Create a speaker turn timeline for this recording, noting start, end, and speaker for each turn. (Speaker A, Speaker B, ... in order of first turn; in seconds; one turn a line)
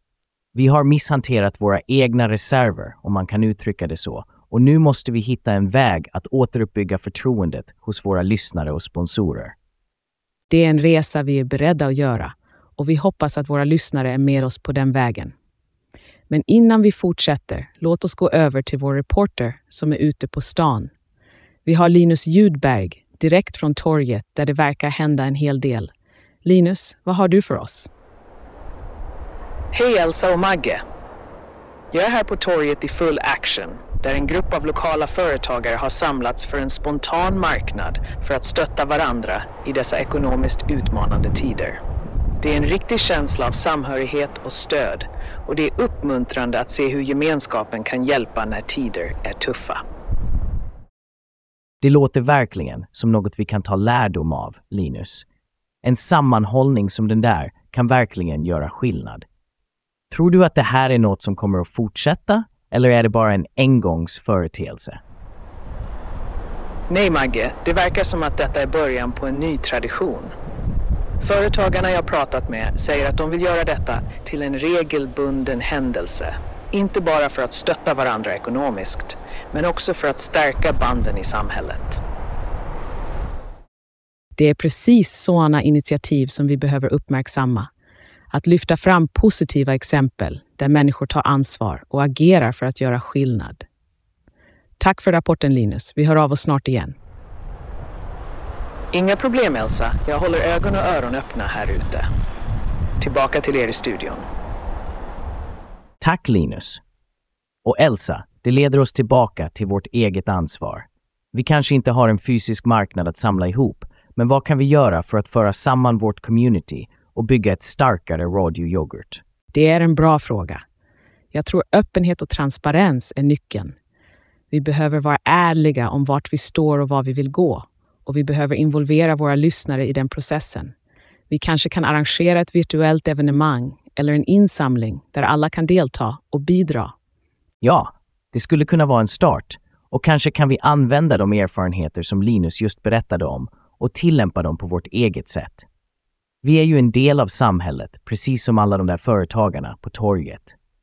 Speaker A: 0.5-9.5
Speaker B: 10.5-15.3
Speaker B: 16.3-20.9
Speaker B: 21.6-25.9
Speaker B: 26.4-27.9
Speaker C: 29.7-30.8
Speaker C: 31.9-41.8
Speaker C: 42.4-49.8
Speaker A: 51.8-55.2
Speaker A: 55.8-59.2
Speaker A: 60.1-65.0
Speaker C: 66.9-70.3
Speaker C: 71.2-82.0
Speaker B: 84.4-87.7
Speaker B: 88.3-93.6
Speaker B: 94.8-97.0
Speaker C: 98.9-102.1
Speaker C: 103.0-104.2
Speaker A: 106.0-106.8
Speaker A: 107.6-119.2
Speaker B: 119.5-120.6
Speaker B: 121.3-123.8
Speaker B: 124.5-130.7
Speaker B: 131.3-136.9
Speaker A: 137.6-145.7
Speaker A: 146.4-150.5